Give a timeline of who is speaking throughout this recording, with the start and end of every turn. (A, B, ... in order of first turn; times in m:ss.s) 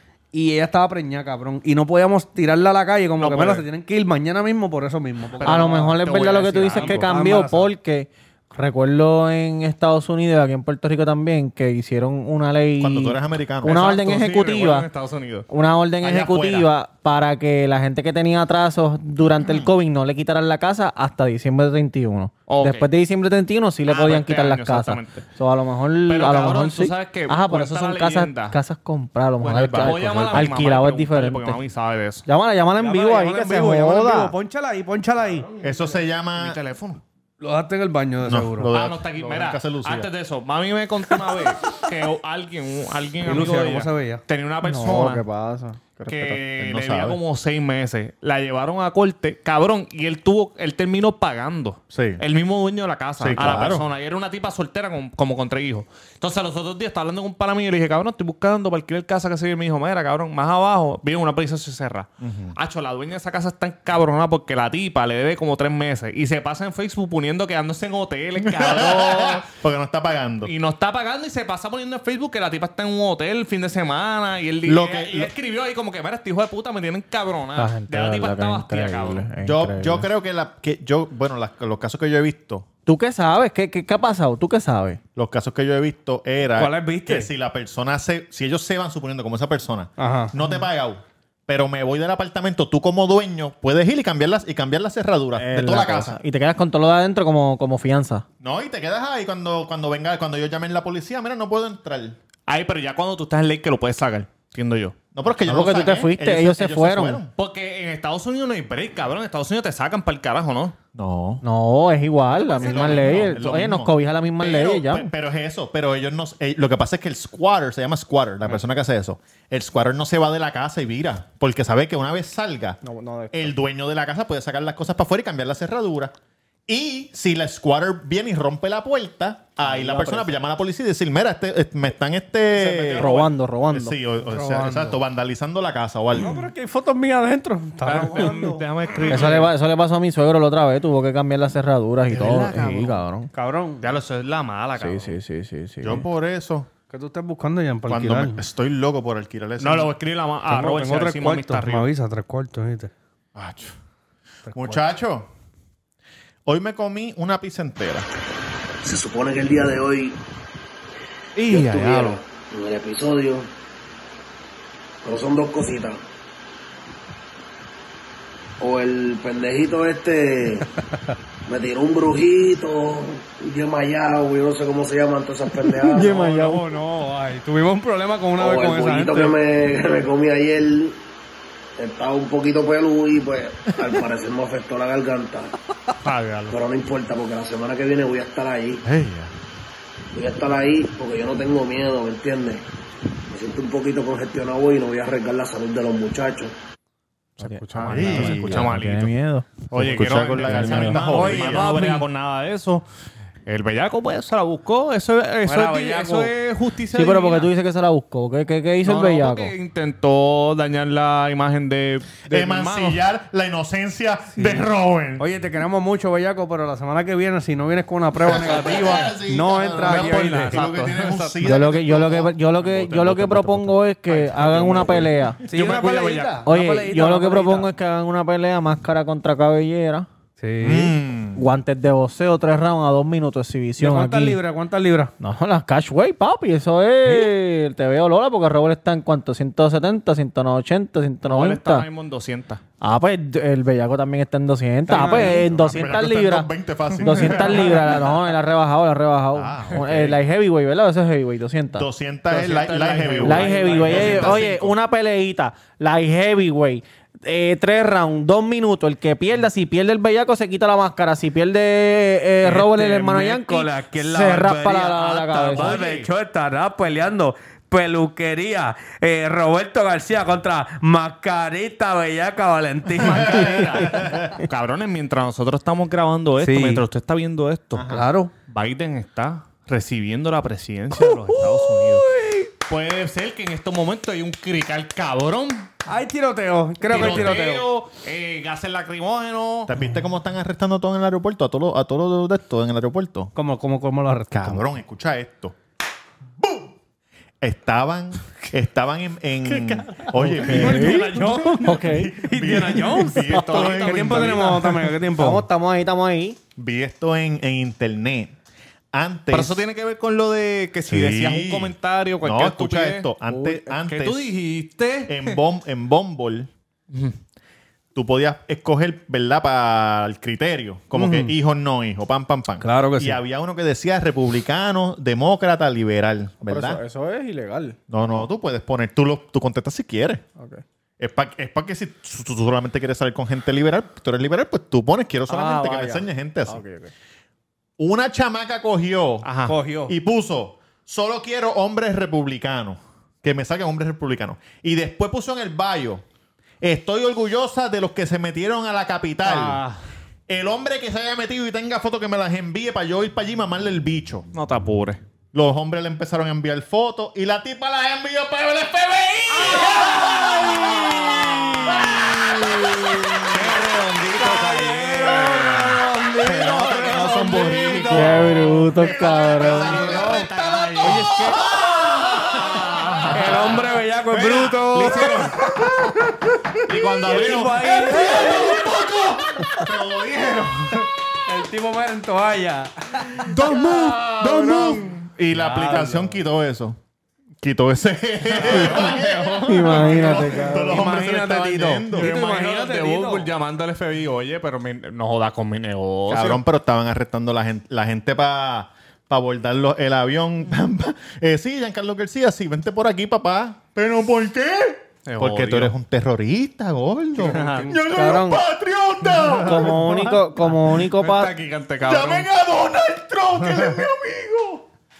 0:00.3-0:06.0 A
0:03.2-0:03.6 B
0:05.4-0:07.1 B
0:05.4-0:14.9 C
0:06.7-0:07.7 A
0:12.8-0:13.8 D
0:13.6-0:15.5 B
0:15.5-0:31.6 C
0:16.0-0:16.7 B
0:19.4-0:19.7 D
0:22.5-0:22.9 B
0:23.9-0:25.2 B
0:26.0-0:28.6 B
0:29.4-0:32.2 B
0:29.6-0:30.5 D
0:32.2-0:34.3 C
0:32.8-0:35.5 A
0:35.4-0:35.8 B
0:35.6-0:36.6 D
0:36.3-0:37.0 B
0:37.4-0:38.7 A
0:38.2-0:40.1 D
0:38.7-0:45.2 B
0:43.2-0:44.2 A
0:44.6-0:46.4 C
0:46.1-1:09.5 B
0:46.6-0:47.2 D
0:51.9-0:52.2 D
0:53.2-0:53.8 D
1:02.2-1:02.6 D
1:08.4-1:10.5 D
1:10.4-1:19.3 B
1:14.6-1:15.3 D
1:17.6-1:20.1 C
1:19.4-1:22.6 D
1:22.8-1:25.0 C
1:25.1-1:36.2 D
1:26.6-1:27.3 A
1:30.0-1:30.3 A
1:35.4-1:38.2 C
1:38.4-1:42.2 D
1:42.5-1:45.0 B
1:45.1-1:47.3 D
1:45.4-1:47.2 C
1:47.4-1:50.8 B
1:50.9-1:51.4 D
1:51.4-1:55.1 C
1:52.3-1:53.2 B
1:52.6-2:02.8 D
2:02.8-2:03.5 C
2:03.3-2:06.1 D
2:06.7-2:16.4 D
2:09.6-2:10.3 C
2:12.5-2:14.0 C
2:14.2-2:15.0 A
2:16.1-2:18.6 A
2:17.8-2:19.5 B
2:19.1-2:23.3 C
2:22.1-2:23.0 B
2:23.3-2:23.9 A
2:23.8-2:25.2 B
2:24.8-2:26.1 C
2:25.8-2:26.7 D
2:26.9-2:28.4 A
2:27.9-2:29.9 D
2:29.6-2:31.9 B
2:30.5-2:32.9 A
2:33.4-2:33.7 D
2:34.5-2:34.8 A
2:34.5-2:35.3 D
2:36.4-2:38.1 D
2:38.8-2:40.2 E
2:41.4-2:42.2 B
2:41.5-2:43.5 E
2:45.0-2:46.0 E
2:48.6-2:50.7 E
2:51.4-2:56.2 E
2:55.8-2:59.4 A
2:55.8-2:56.6 C
2:58.4-3:01.0 E
3:01.8-3:05.5 E
3:06.0-3:06.6 B
3:06.5-3:08.8 E
3:08.8-3:09.3 D
3:10.1-3:12.6 E
3:13.3-3:16.5 E
3:17.4-3:19.1 B
3:17.4-3:19.5 C
3:17.8-3:18.7 D
3:19.7-3:22.0 D
3:19.7-3:22.8 B
3:20.4-3:21.2 C
3:21.0-3:21.9 A
3:23.4-3:27.5 B
3:25.4-3:26.3 A
3:26.9-3:29.5 C
3:28.8-3:33.0 B
3:32.2-3:35.2 D
3:34.4-3:34.6 A
3:35.2-3:40.6 A
3:38.2-3:43.7 D
3:39.8-3:41.5 B
3:41.4-3:45.4 C
3:43.0-3:46.4 B
3:45.5-3:47.7 A
3:46.4-3:50.1 C
3:50.4-3:51.0 A
3:50.6-3:51.4 D
3:51.4-3:54.4 C
3:53.8-3:55.1 A
3:55.2-4:01.8 C
3:57.0-3:57.3 A
4:01.2-4:02.6 B
4:02.8-4:11.8 C
4:04.9-4:05.5 A
4:04.9-4:08.1 D
4:07.2-4:07.8 B
4:09.3-4:10.2 D
4:11.7-4:14.8 D
4:12.3-4:14.6 B
4:13.2-4:25.7 C
4:13.3-4:14.1 A
4:22.4-4:34.0 A
4:25.0-4:26.1 B
4:33.0-4:37.9 B
4:33.0-4:34.4 D
4:36.4-4:36.8 A
4:37.8-4:38.0 D
4:37.8-4:38.3 A
4:38.5-4:42.1 B
4:40.9-4:42.5 A
4:42.7-4:45.7 B
4:45.8-4:47.7 A
4:46.8-4:49.7 B
4:46.9-4:47.3 D
4:49.7-4:53.3 D
4:53.3-4:54.7 A
4:54.3-4:55.5 D
4:56.4-4:56.7 D
4:57.4-5:04.9 D
4:59.4-5:05.5 A
5:00.2-5:02.2 C
5:00.5-5:01.4 B
5:03.3-5:04.5 B
5:05.1-5:06.4 C
5:06.6-5:08.3 D
5:08.9-5:09.6 D
5:09.3-5:13.1 B
5:10.9-5:14.3 D
5:13.3-5:13.7 C
5:13.9-5:15.4 B
5:15.1-5:16.5 D
5:17.9-5:26.8 D
5:20.9-5:21.3 A
5:22.6-5:23.2 A
5:26.4-5:27.8 C
5:27.9-5:30.2 D
5:31.0-5:36.6 D
5:35.3-5:36.9 C
5:37.8-5:39.3 D
5:39.2-5:39.6 B
5:39.5-5:39.9 A
5:39.9-5:46.0 D
5:46.6-5:49.6 D
5:49.2-5:49.8 B
5:50.3-5:54.3 D
5:54.3-5:55.0 B
5:55.3-6:01.1 D
5:59.3-6:02.2 B
5:59.5-6:02.0 A
6:01.6-6:03.3 D
6:03.1-6:08.6 A
6:03.3-6:05.8 B
6:06.2-6:13.6 D
6:06.5-6:15.4 B
6:07.9-6:09.8 C
6:09.5-6:15.7 A
6:14.1-6:16.1 D
6:16.6-6:20.9 B
6:16.7-6:19.2 D
6:16.8-6:18.7 A
6:21.2-6:23.3 A
6:23.2-6:26.8 D
6:23.3-6:25.0 B
6:25.3-6:26.2 A
6:27.4-6:32.1 D
6:28.3-6:30.3 B
6:28.6-6:28.9 A
6:29.4-6:30.8 C
6:29.8-6:33.3 A
6:31.9-6:36.4 B
6:36.1-6:50.2 D
6:45.0-6:45.7 B
6:47.2-6:48.2 B
6:47.4-6:47.7 A
6:47.8-6:48.4 C
6:49.0-6:52.3 B
6:49.4-6:51.3 C
6:51.8-6:54.6 D
6:53.4-6:53.8 B